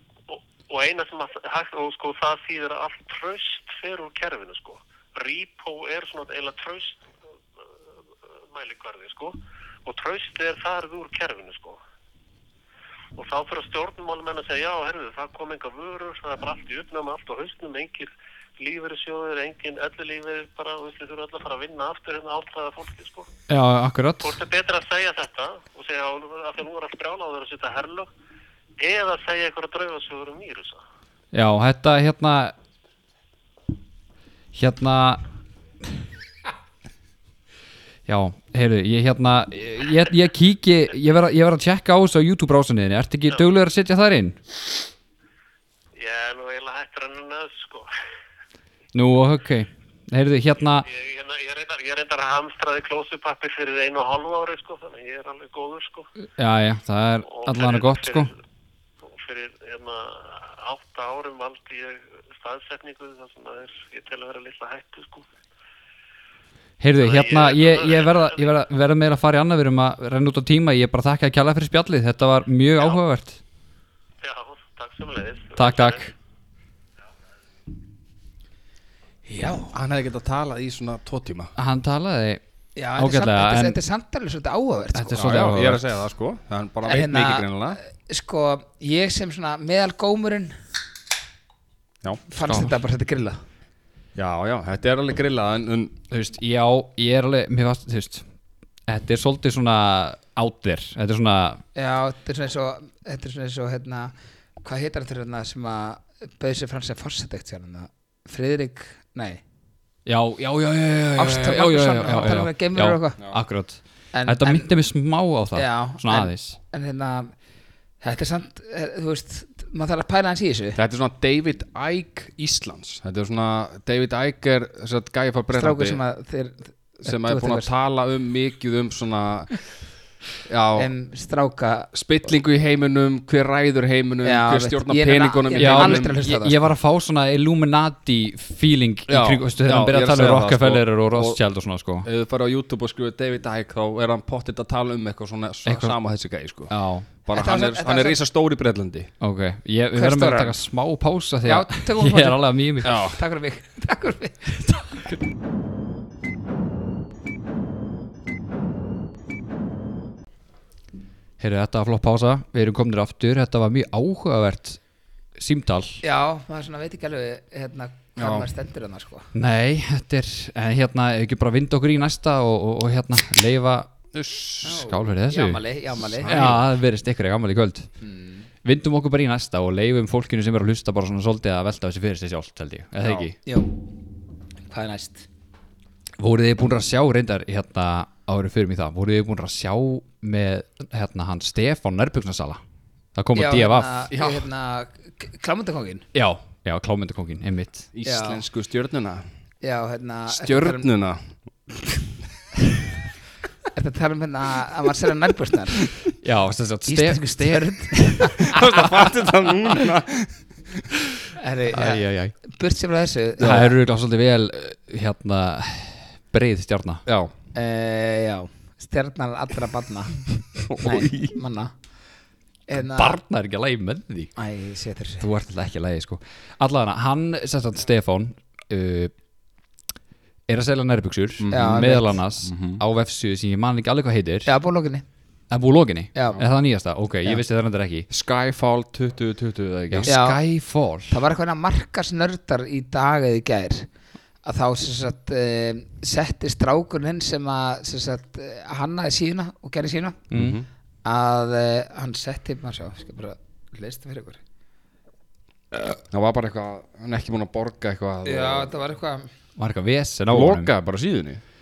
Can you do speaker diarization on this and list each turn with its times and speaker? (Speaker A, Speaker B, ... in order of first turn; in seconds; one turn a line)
Speaker A: 0.3-7.0
Speaker A: 7.9-11.8
Speaker A: 13.2-23.3
Speaker B: 23.5-24.4
Speaker A: 24.2-28.1
Speaker A: 28.8-30.8
Speaker B: 31.3-32.5
Speaker B: 34.5-35.2
Speaker B: 38.1-44.4
Speaker A: 46.0-47.9
Speaker B: 48.9-50.9
Speaker A: 50.8-56.1
Speaker B: 56.4-58.3
Speaker A: 57.3-58.3
Speaker A: 59.0-65.3
Speaker B: 66.8-73.4
Speaker A: 67.0-68.5
Speaker A: 74.2-76.0
Speaker B: 75.6-76.1
Speaker C: 79.3-79.8
Speaker D: 79.7-81.5
Speaker B: 81.6-82.4
Speaker C: 82.8-85.2
Speaker B: 83.0-83.8
Speaker B: 84.9-85.8
Speaker D: 85.2-87.8
Speaker C: 86.8-90.5
Speaker C: 92.3-93.4
Speaker B: 92.4-92.7
Speaker D: 94.1-95.9
Speaker B: 96.1-98.2
Speaker B: 98.9-101.6
Speaker C: 101.7-109.4
Speaker B: 110.0-116.6
Speaker C: 111.2-113.2
Speaker C: 114.1-114.7
Speaker C: 115.5-117.3
Speaker C: 118.0-120.8
Speaker D: 120.8-126.0
Speaker C: 125.5-127.7
Speaker D: 127.0-129.5
Speaker D: 130.5-130.9
Speaker C: 130.8-131.9
Speaker D: 131.9-136.1
Speaker C: 134.2-136.7
Speaker B: 135.6-142.1
Speaker D: 139.1-141.4
Speaker D: 142.0-146.7
Speaker B: 145.6-145.9
Speaker B: 146.7-147.1
Speaker D: 147.2-149.1
Speaker C: 147.3-148.2
Speaker B: 149.2-152.9
Speaker C: 149.9-150.6
Speaker C: 151.4-154.7
Speaker D: 152.8-153.2
Speaker B: 161.4-164.8
Speaker B: 165.4-166.0
Speaker C: 166.0-169.3
Speaker D: 168.2-168.5
Speaker B: 169.3-174.0
Speaker D: 174.1-174.8
Speaker B: 174.6-175.6
Speaker C: 174.6-176.6
Speaker D: 175.9-176.6
Speaker B: 176.2-177.9
Speaker C: 178.0-178.4
Speaker B: 178.6-183.4
Speaker C: 183.4-183.7
Speaker C: 184.7-185.2
Speaker B: 186.2-192.6
Speaker B: 193.2-194.0
Speaker C: 193.3-196.0
Speaker D: 194.1-194.5
Speaker B: 196.1-197.9
Speaker D: 197.9-199.2
Speaker C: 198.0-198.4
Speaker C: 199.6-200.9
Speaker D: 200.3-201.2
Speaker C: 203.7-205.8
Speaker B: 206.2-208.3
Speaker C: 206.9-208.6
Speaker D: 208.4-210.8
Speaker C: 211.3-213.7
Speaker B: 211.7-212.3
Speaker D: 213.4-213.6
Speaker B: 213.4-217.0
Speaker D: 217.1-217.3
Speaker C: 217.5-221.7
Speaker D: 220.7-221.3
Speaker C: 222.7-223.2
Speaker B: 222.9-224.3
Speaker C: 224.4-225.2
Speaker B: 225.2-229.1
Speaker B: 230.5-234.5
Speaker D: 231.4-232.8
Speaker C: 231.5-232.2
Speaker C: 234.4-235.0
Speaker B: 235.5-238.1
Speaker C: 236.1-236.4
Speaker D: 238.1-240.1
Speaker B: 239.9-241.2
Speaker C: 240.1-240.4
Speaker C: 241.1-243.9
Speaker C: 244.4-250.2
Speaker B: 250.3-250.6
Speaker D: 250.3-250.7
Speaker C: 251.0-254.4
Speaker D: 256.1-258.7
Speaker C: 258.2-259.3
Speaker B: 259.6-260.7
Speaker D: 260.3-261.4